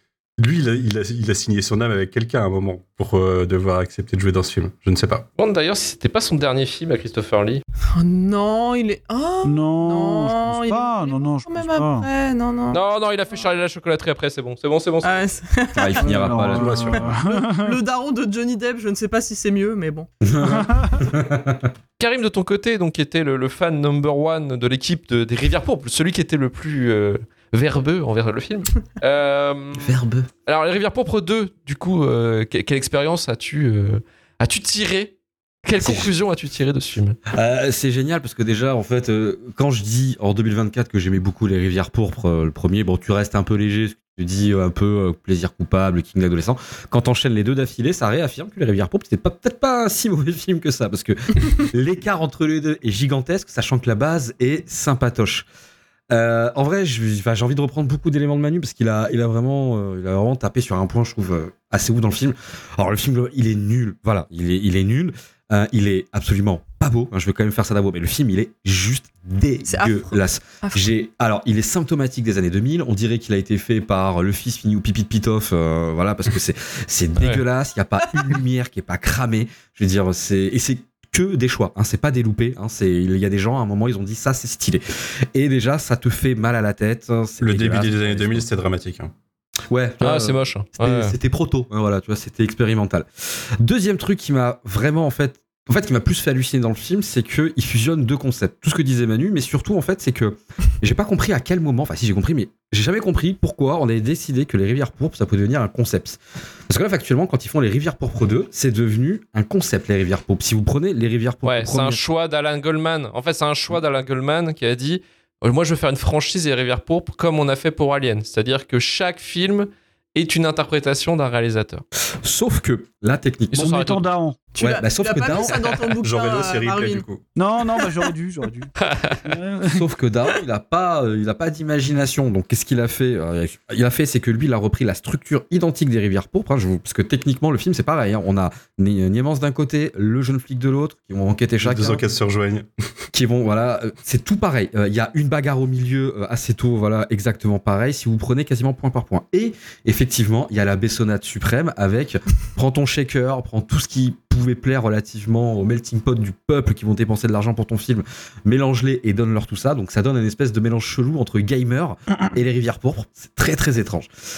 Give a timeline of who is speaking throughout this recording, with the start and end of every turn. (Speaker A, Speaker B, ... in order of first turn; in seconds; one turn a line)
Speaker A: 0.4-5.2
Speaker B: 5.4-7.6
Speaker C: 7.9-12.8
Speaker D: 9.4-12.1
Speaker B: 12.7-15.2
Speaker C: 15.0-16.1
Speaker E: 15.8-16.9
Speaker D: 16.0-17.8
Speaker A: 16.5-17.1
Speaker C: 17.0-20.1
Speaker E: 20.2-21.7
Speaker D: 20.4-21.1
Speaker B: 22.0-29.9
Speaker E: 29.8-30.3
Speaker B: 30.4-37.2
Speaker E: 35.8-36.1
Speaker E: 37.3-55.5
Speaker E: 56.1-84.8
Speaker C: 69.7-70.9
Speaker E: 85.3-88.5
Speaker A: 87.4-89.1
Speaker E: 89.7-112.0
Speaker B: 90.0-91.1
Speaker B: 111.4-121.8
Speaker E: 122.2-123.9
Speaker B: 123.5-124.0
Speaker D: 123.5-124.4
Speaker C: 124.5-127.0
Speaker E: 124.6-125.6
Speaker A: 126.0-127.2
Speaker D: 127.3-128.7
Speaker B: 128.8-129.3
Speaker D: 129.2-129.8
Speaker E: 129.7-142.0
Speaker A: 141.6-142.7
Speaker E: 143.1-164.1